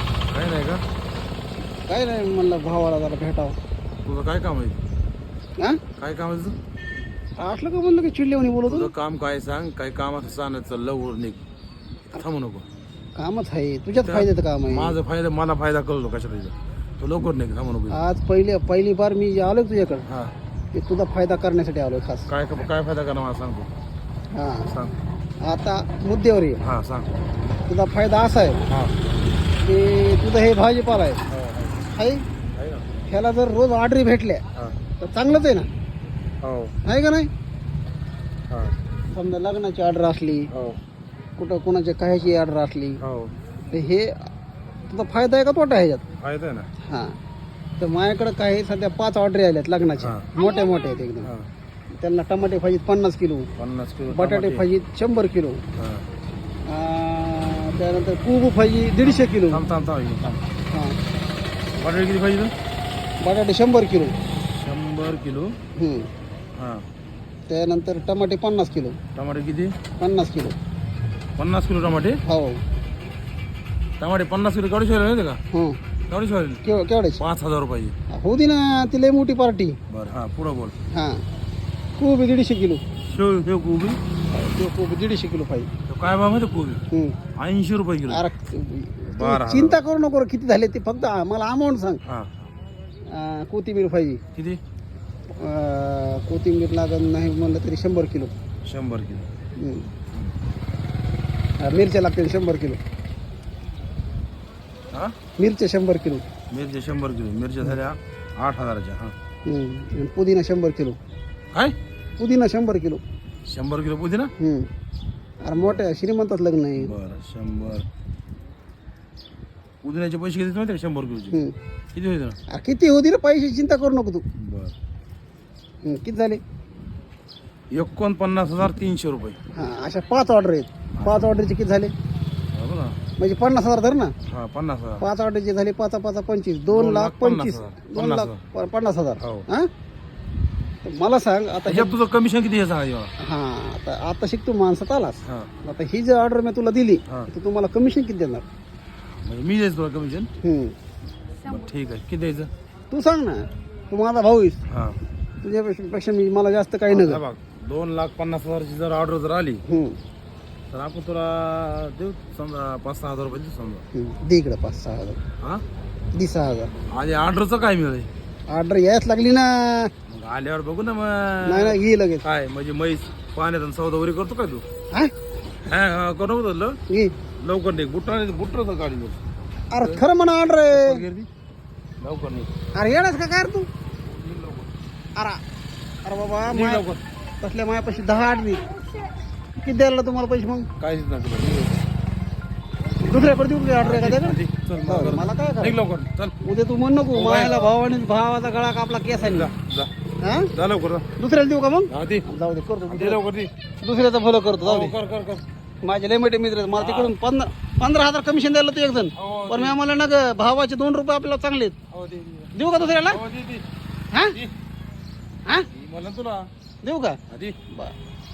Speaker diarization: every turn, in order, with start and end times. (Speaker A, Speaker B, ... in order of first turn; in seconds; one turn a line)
Speaker A: 0.3-0.8
Speaker B: 1.9-3.5
Speaker A: 4.0-4.8
Speaker A: 6.0-6.6
Speaker B: 7.4-8.9
Speaker A: 8.7-11.4
Speaker A: 12.1-12.7
Speaker B: 13.2-14.9
Speaker A: 14.0-18.0
Speaker B: 17.9-20.1
Speaker A: 20.1-20.3
Speaker B: 20.7-22.3
Speaker A: 22.3-23.7
Speaker B: 24.3-24.7
Speaker A: 24.7-24.9
Speaker B: 25.4-26.6
Speaker A: 26.6-27.1
Speaker B: 27.7-28.6
Speaker A: 28.7-28.9
Speaker B: 29.6-31.2
Speaker A: 31.3-31.8
Speaker B: 31.9-32.2
Speaker A: 32.5-32.9
Speaker B: 33.1-34.4
Speaker B: 35.0-35.7
Speaker A: 36.4-36.8
Speaker B: 36.9-37.3
Speaker A: 38.5-38.8
Speaker B: 39.1-40.5
Speaker A: 40.5-40.8
Speaker B: 41.4-43.0
Speaker A: 43.0-43.4
Speaker B: 43.7-44.1
Speaker B: 44.9-46.0
Speaker A: 46.2-46.7
Speaker B: 46.8-47.1
Speaker B: 47.8-51.3
Speaker A: 50.0-50.3
Speaker A: 51.2-51.5
Speaker B: 52.0-53.5
Speaker A: 53.6-54.7
Speaker B: 54.1-55.6
Speaker A: 55.8-56.1
Speaker B: 56.7-59.6
Speaker A: 59.5-60.4
Speaker A: 61.8-62.5
Speaker B: 63.2-64.1
Speaker A: 64.5-65.5
Speaker B: 65.8-66.1
Speaker A: 66.5-66.8
Speaker B: 67.5-69.0
Speaker A: 69.1-69.7
Speaker B: 70.0-70.5
Speaker A: 71.4-72.2
Speaker B: 72.3-72.6
Speaker A: 74.0-75.4
Speaker B: 75.5-75.8
Speaker A: 76.1-76.6
Speaker B: 76.6-77.2
Speaker A: 77.2-78.0
Speaker B: 78.1-79.8
Speaker A: 79.9-80.8
Speaker B: 80.9-81.2
Speaker B: 82.0-82.8
Speaker A: 83.0-84.0
Speaker B: 84.3-85.7
Speaker A: 85.9-86.8
Speaker B: 86.9-87.2
Speaker A: 87.4-88.2
Speaker B: 88.1-92.0
Speaker A: 89.1-89.8
Speaker A: 92.0-92.3
Speaker B: 93.1-94.2
Speaker B: 95.4-98.3
Speaker A: 98.6-99.3
Speaker B: 99.6-99.9
Speaker B: 101.6-102.8
Speaker B: 105.4-106.2
Speaker A: 106.5-109.1
Speaker B: 109.5-111.0
Speaker B: 112.2-113.0
Speaker A: 113.5-114.3
Speaker B: 114.4-114.7
Speaker B: 115.4-116.9
Speaker A: 116.8-117.8
Speaker A: 119.8-121.4
Speaker A: 121.9-122.4
Speaker B: 122.5-124.2
Speaker A: 124.4-124.7
Speaker B: 125.8-126.4
Speaker A: 127.7-129.4
Speaker B: 129.5-131.9
Speaker A: 131.0-131.3
Speaker A: 132.5-133.0
Speaker B: 133.2-134.1
Speaker A: 134.3-135.0
Speaker B: 135.0-139.7
Speaker A: 136.7-138.4
Speaker A: 139.2-139.4
Speaker B: 140.8-141.9
Speaker A: 141.7-143.1
Speaker B: 143.2-148.4
Speaker A: 145.2-145.5
Speaker A: 149.2-150.3
Speaker B: 150.4-150.8
Speaker A: 151.4-152.5
Speaker B: 152.9-154.6
Speaker A: 154.7-155.0
Speaker B: 155.4-157.2
Speaker A: 156.9-159.6
Speaker B: 159.7-160.0
Speaker A: 160.7-163.8
Speaker B: 163.9-165.2
Speaker B: 166.1-166.7
Speaker A: 166.9-168.1
Speaker B: 168.5-169.9
Speaker A: 170.1-174.6
Speaker B: 171.4-172.2
Speaker A: 175.6-176.8
Speaker A: 177.4-179.2
Speaker B: 179.7-181.0
Speaker A: 180.7-181.3
Speaker A: 182.0-182.5
Speaker B: 182.8-183.7
Speaker A: 184.1-184.7
Speaker B: 185.2-185.4
Speaker B: 186.0-186.8
Speaker A: 186.5-187.0
Speaker B: 187.4-188.6
Speaker B: 189.6-190.7
Speaker A: 190.8-191.8
Speaker B: 193.0-195.8
Speaker A: 193.8-196.3
Speaker B: 196.4-199.5
Speaker A: 197.1-197.6
Speaker A: 199.2-199.9
Speaker B: 200.2-200.5
Speaker A: 200.5-201.1
Speaker B: 201.2-203.2
Speaker A: 201.9-202.2
Speaker A: 202.9-203.5
Speaker B: 203.8-204.9
Speaker A: 204.6-205.4
Speaker B: 205.8-211.8
Speaker A: 206.8-207.1
Speaker A: 209.2-209.8
Speaker A: 211.9-212.5
Speaker B: 212.5-213.2
Speaker A: 213.1-213.6
Speaker B: 214.1-214.4
Speaker A: 215.7-216.5
Speaker B: 216.8-217.9
Speaker A: 217.3-217.6